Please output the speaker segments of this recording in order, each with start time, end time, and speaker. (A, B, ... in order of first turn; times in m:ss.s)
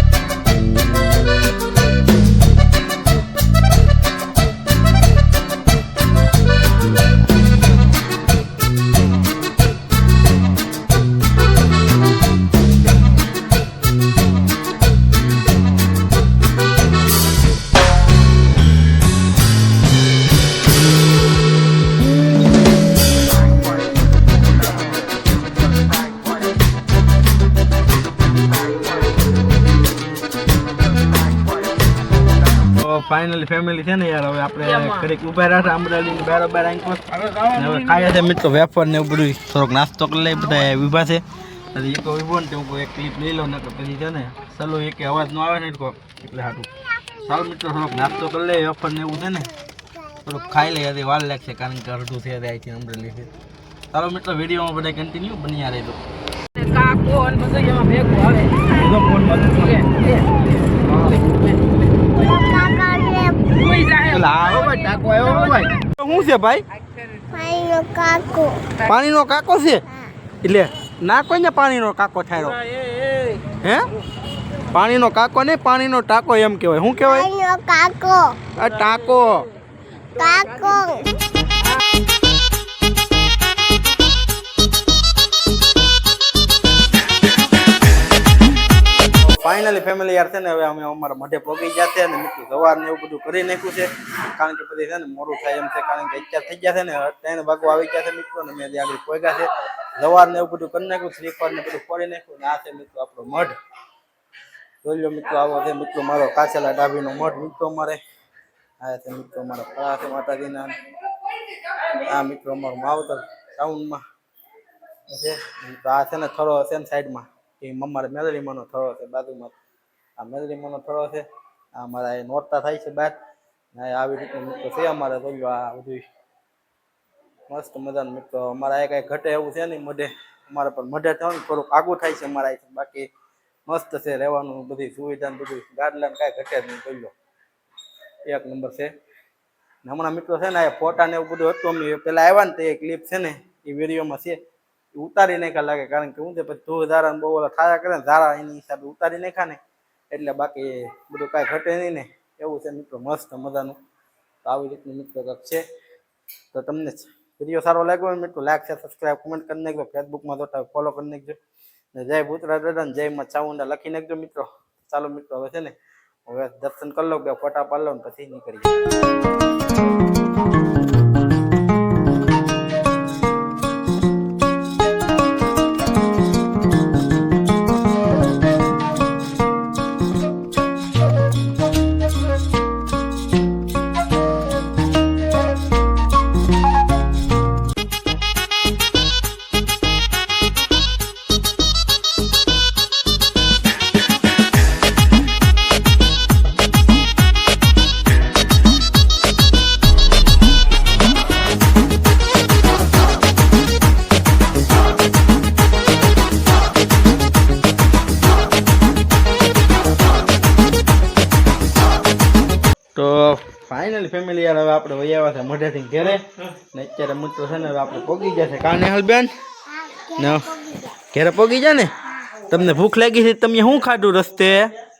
0:32.6-0:49.5 A
0:50.2-0:53.3 A
0:53.9-0:56.0 A
0:56.6-0:58.6 B
0:58.6-1:00.2 A
1:00.8-1:01.2 A
1:02.1-1:03.7 C
1:03.6-1:04.0 B
1:04.0-1:06.6 A
1:07.2-1:08.8 C
1:08.8-1:09.9 A
1:10.4-1:12.6 A
1:13.4-1:13.9 A
1:14.7-1:17.3 A
1:17.0-1:18.5 C
1:18.5-1:19.5 A
1:20.1-1:21.1 C
1:29.2-1:43.5 A
1:44.8-1:48.0 A
1:48.8-1:50.8 A
1:51.9-1:54.0 A
1:55.1-1:59.5 A
2:00.2-2:03.2 A
2:03.7-2:06.1 A
2:07.5-2:13.1 A
2:13.6-2:17.1 A
2:18.2-2:18.9 A
2:19.8-2:24.4 A
2:24.9-2:33.8 A
2:34.4-2:35.6 A
2:36.5-2:41.4 A
2:41.9-2:45.7 A
2:46.2-2:48.8 A
3:32.9-3:39.3 A
3:39.7-3:41.0 C
3:40.1-3:44.7 A